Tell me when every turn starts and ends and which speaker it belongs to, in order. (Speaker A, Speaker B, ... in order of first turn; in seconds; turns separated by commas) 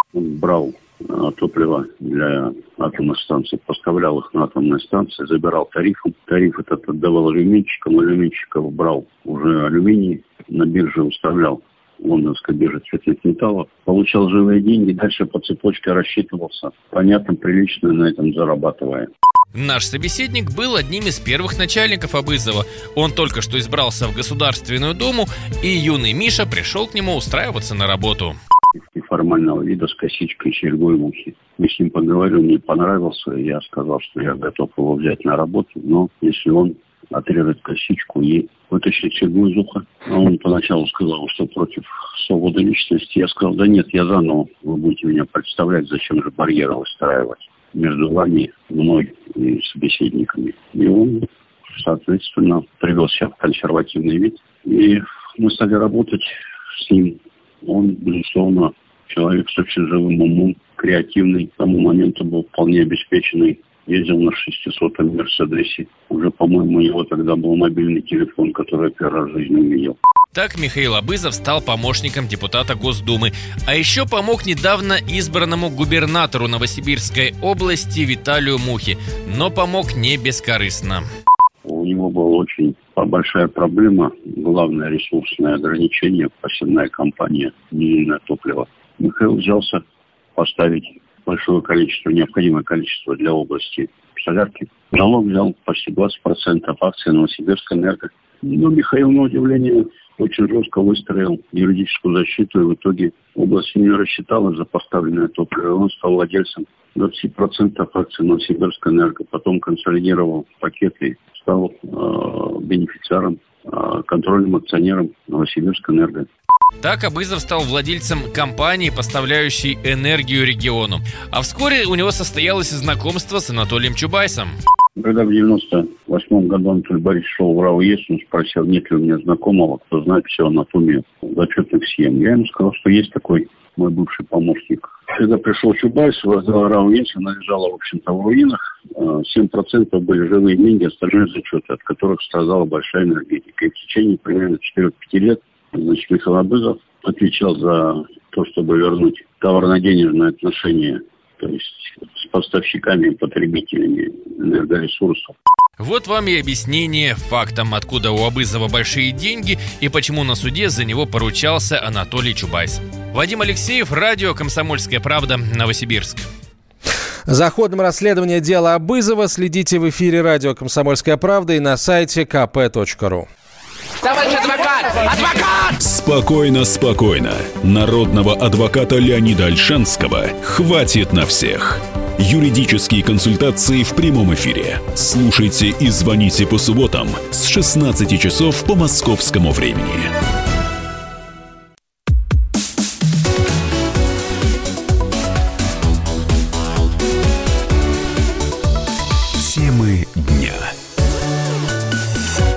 Speaker A: 0.1-19.1, Speaker B: 19.5-28.4, Speaker A: 28.8-70.0, Speaker B: 70.3-81.0, Speaker A: 81.6-89.8, Speaker A: 90.3-116.3, Speaker B: 116.8-124.5, Speaker A: 125.0-155.3, Speaker B: 155.8-166.2, Speaker C: 167.3-173.3, Speaker D: 175.7-190.1, Speaker D: 199.3-200.7